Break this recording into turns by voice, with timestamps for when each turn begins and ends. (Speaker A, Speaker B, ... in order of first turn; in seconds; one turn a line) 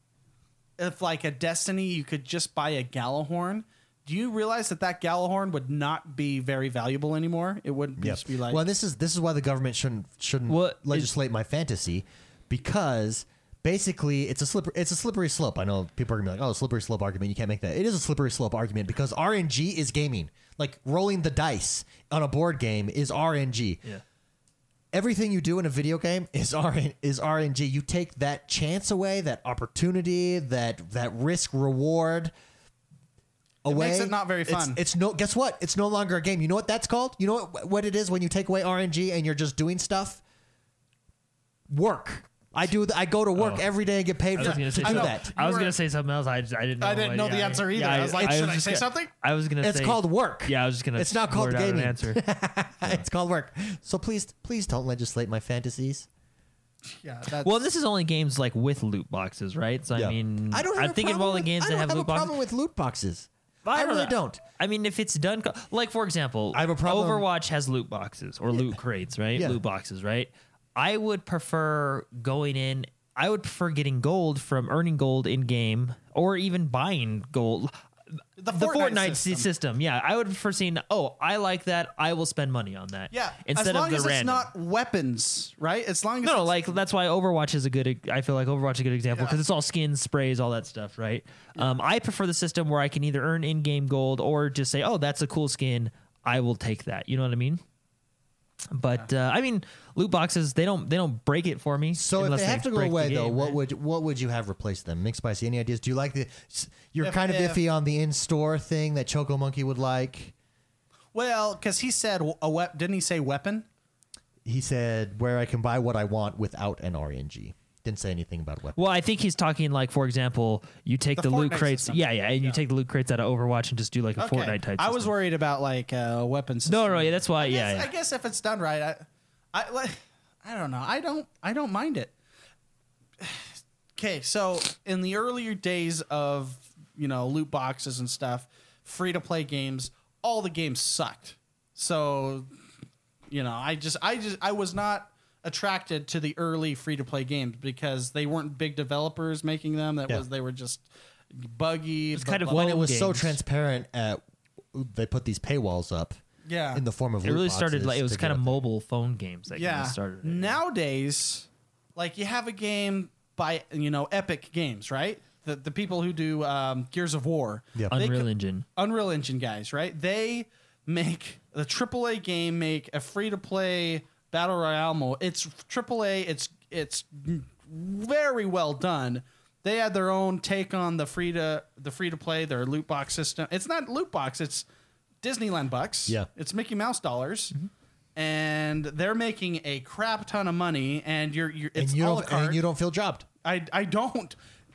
Speaker A: 0.8-8.6
Speaker B: 8.0-23.8
Speaker C: 10.5-11.1
Speaker B: 24.9-32.3
Speaker B: 33.6-40.2
Speaker A: 33.7-34.8
Speaker B: 41.7-45.3
Speaker C: 43.4-43.6
Speaker C: 44.4-52.2
Speaker A: 44.4-45.7
Speaker A: 46.8-49.1
Speaker B: 49.6-56.1
Speaker A: 56.9-57.6
Speaker C: 57.4-62.3
Speaker B: 59.9-64.4
Speaker C: 63.6-77.8
Speaker B: 66.5-67.3
Speaker B: 69.3-69.6
Speaker A: 78.4-79.5
Speaker C: 78.5-84.5
Speaker A: 83.1-86.7
Speaker C: 86.2-97.6
Speaker A: 89.1-89.4
Speaker C: 98.7-103.6
Speaker B: 101.9-110.3
Speaker A: 107.0-107.6
Speaker A: 111.1-113.7
Speaker B: 114.4-118.8
Speaker C: 118.8-125.1
Speaker A: 121.2-122.6
Speaker A: 124.2-132.1
Speaker C: 126.7-127.9
Speaker A: 133.2-142.5
Speaker A: 143.3-152.6
Speaker C: 152.1-153.4
Speaker B: 152.4-154.2
Speaker B: 154.7-156.2
Speaker A: 156.5-156.8
Speaker B: 156.7-158.6
Speaker C: 157.2-160.6
Speaker A: 159.5-184.6
Speaker C: 167.9-168.6
Speaker A: 185.2-187.5
Speaker A: 188.2-192.6
Speaker B: 191.8-193.2
Speaker A: 193.4-194.3